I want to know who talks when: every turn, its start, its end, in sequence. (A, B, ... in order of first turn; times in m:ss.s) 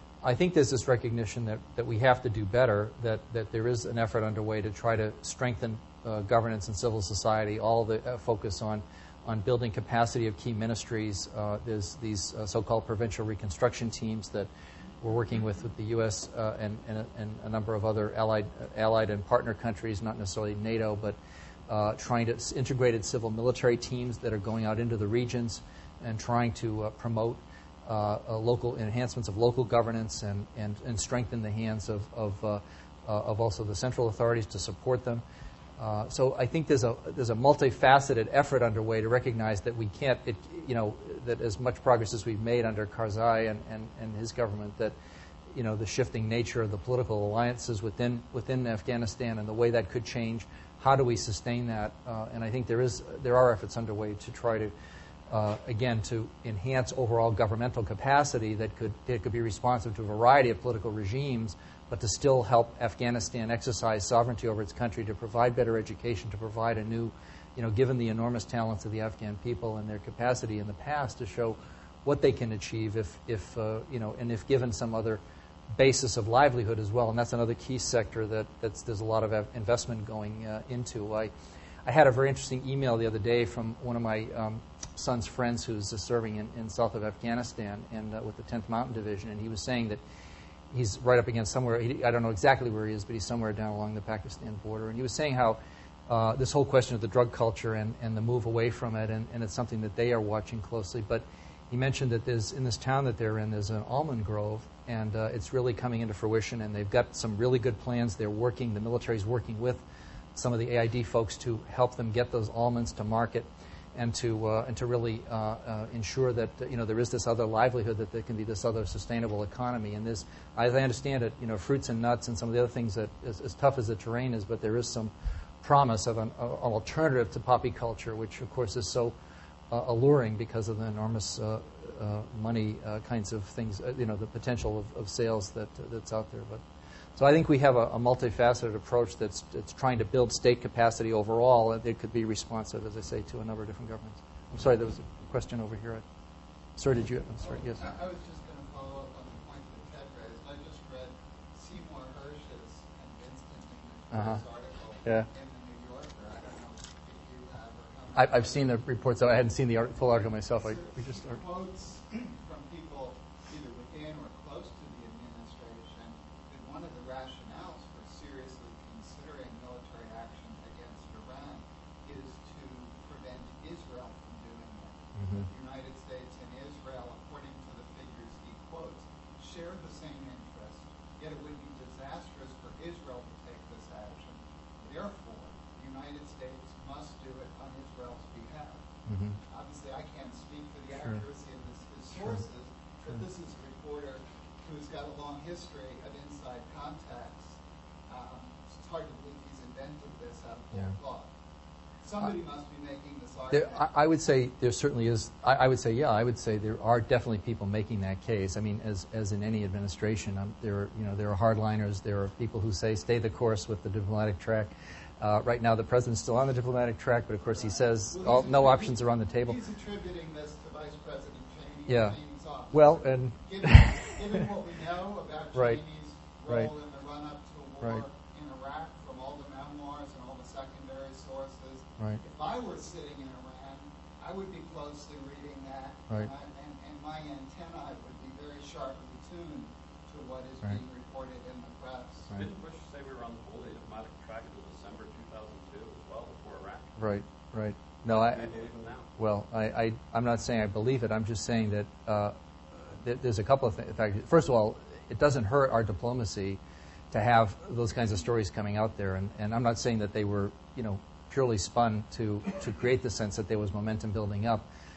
0:00.2-0:14.5 A
0:15.0-0:21.2 A
0:21.7-0:35.2 A
0:35.8-0:45.0 A
0:45.5-0:54.7 A
0:55.3-1:15.2 A
1:15.7-1:21.3 A
1:21.8-1:30.0 A
1:30.7-1:49.8 A
1:50.4-2:09.2 A
2:09.7-2:16.6 A
2:17.2-2:26.0 A
2:26.8-2:27.9 A
2:27.4-2:38.8 B
2:34.1-2:34.4 A
2:38.2-2:41.4 A
2:39.8-3:08.8 B
2:55.2-2:55.5 A
3:09.1-3:09.4 A
3:09.5-3:17.6 B
3:18.1-3:21.3 B
3:22.0-3:23.9 B
3:23.5-3:39.6 A
3:37.5-4:02.3 B
3:41.9-3:42.2 A
3:42.7-3:44.1 A
3:45.5-3:45.8 A
4:02.3-4:06.9 C
4:07.0-4:08.5 A
4:08.1-4:09.1 C
4:09.2-4:12.4 A
4:13.0-4:16.6 A
4:17.1-4:24.7 A